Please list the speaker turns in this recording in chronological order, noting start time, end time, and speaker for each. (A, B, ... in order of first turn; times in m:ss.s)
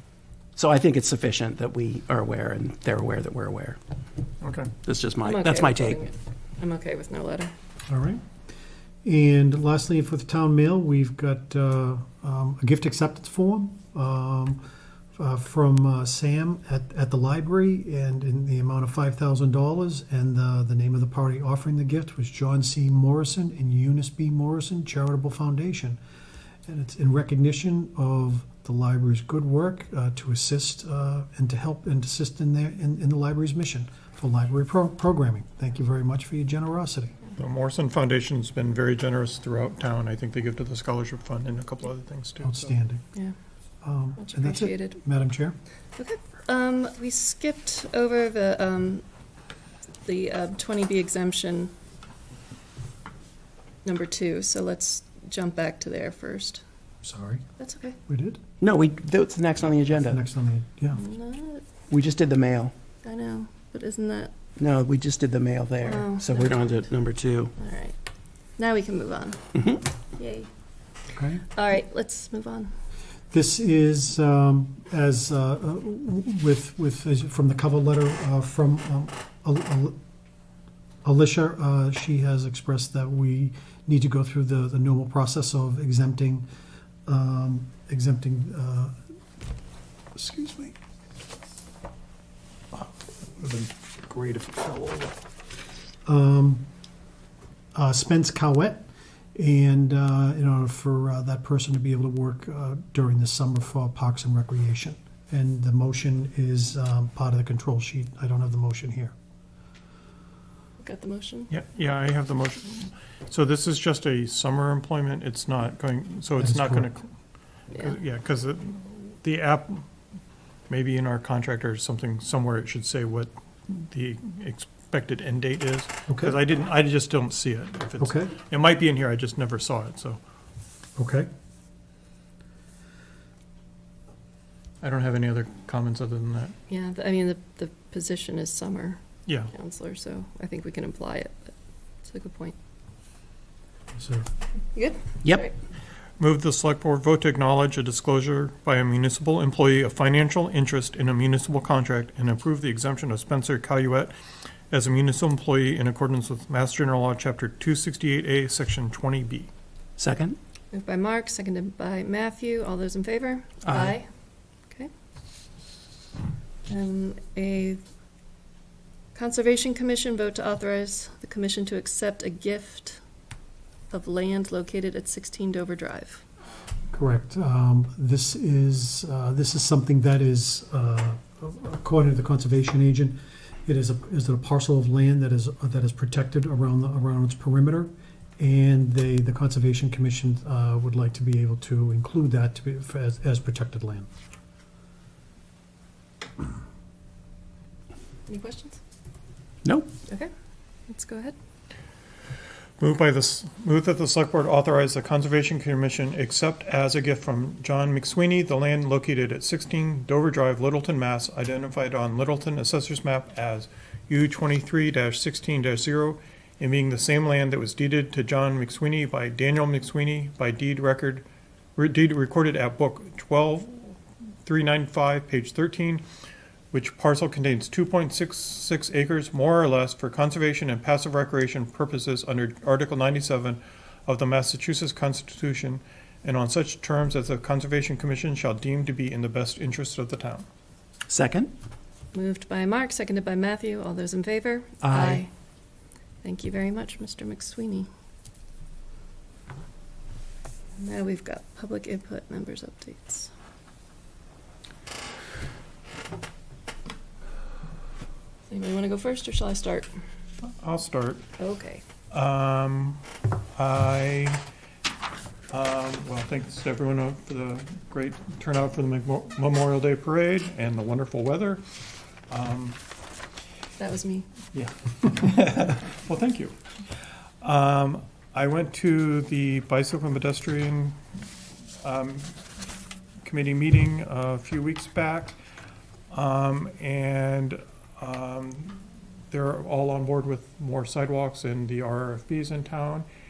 0:00.6-0:03.8 A
0:04.4-0:04.7 B
0:04.8-0:06.0 A
0:05.2-0:07.5 C
0:07.9-0:08.2 D
0:09.0-0:14.6 D
0:15.2-0:26.0 D
0:26.6-0:37.2 D
0:37.4-0:42.7 B
0:42.4-0:43.0 D
0:43.8-0:45.6 D
0:44.2-0:45.0 C
0:46.0-0:49.0 C
0:50.0-0:51.7 C
0:53.8-0:56.6 C
0:57.0-0:57.4 D
0:57.6-0:58.0 C
0:58.1-0:58.4 D
0:58.6-1:00.2 A
0:59.9-1:01.0 D
1:01.0-1:01.6 C
1:01.9-1:02.7 A
1:03.0-1:04.3 C
1:04.6-1:07.5 A
1:05.8-1:06.8 C
1:07.6-1:08.0 C
1:08.6-1:09.4 C
1:09.5-1:09.8 A
1:10.1-1:10.5 C
1:11.1-1:11.4 D
1:11.5-1:12.7 C
1:13.3-1:20.0 D
1:21.0-1:26.4 D
1:27.0-1:28.9 D
1:30.1-1:30.8 D
1:32.7-1:35.1 D
1:36.0-1:36.6 D
1:37.7-1:49.1 D
1:50.8-1:51.5 C
1:51.5-1:57.1 B
1:56.4-1:56.9 D
1:57.7-1:59.9 B
2:00.7-2:10.2 B
2:06.1-2:06.4 D
2:08.0-2:08.4 D
2:11.0-2:11.3 D
2:14.8-2:16.5 B
2:16.7-2:21.5 C
2:22.0-2:22.6 C
2:24.0-2:24.2 D
2:24.7-2:25.5 C
2:26.2-2:34.1 B
2:34.7-2:39.5 B
2:40.0-2:40.4 A
2:40.7-2:44.1 C
2:43.6-2:43.9 A
2:46.7-2:47.8 C
2:49.1-2:53.0 C
2:53.9-2:56.2 C
2:56.9-3:14.1 D
3:18.3-3:18.8 C
3:19.6-3:19.9 A
3:20.9-3:21.3 C
3:22.8-3:46.0 B
3:46.7-4:00.4 B
4:01.1-4:01.5 A
4:02.1-4:05.3 C
4:04.8-4:05.2 A
4:06.2-4:07.9 C
4:10.8-4:13.3 C
4:18.5-4:19.9 C
4:20.4-4:21.3 B
4:21.4-4:21.8 C
4:22.1-4:23.0 B
4:23.6-4:24.4 B
4:25.5-4:31.6 B
4:32.3-4:32.8 B
4:33.8-4:34.3 C
4:34.5-4:36.6 B
4:37.4-4:41.0 B
4:41.8-4:42.3 B
4:43.2-4:45.4 B
4:46.1-4:53.1 B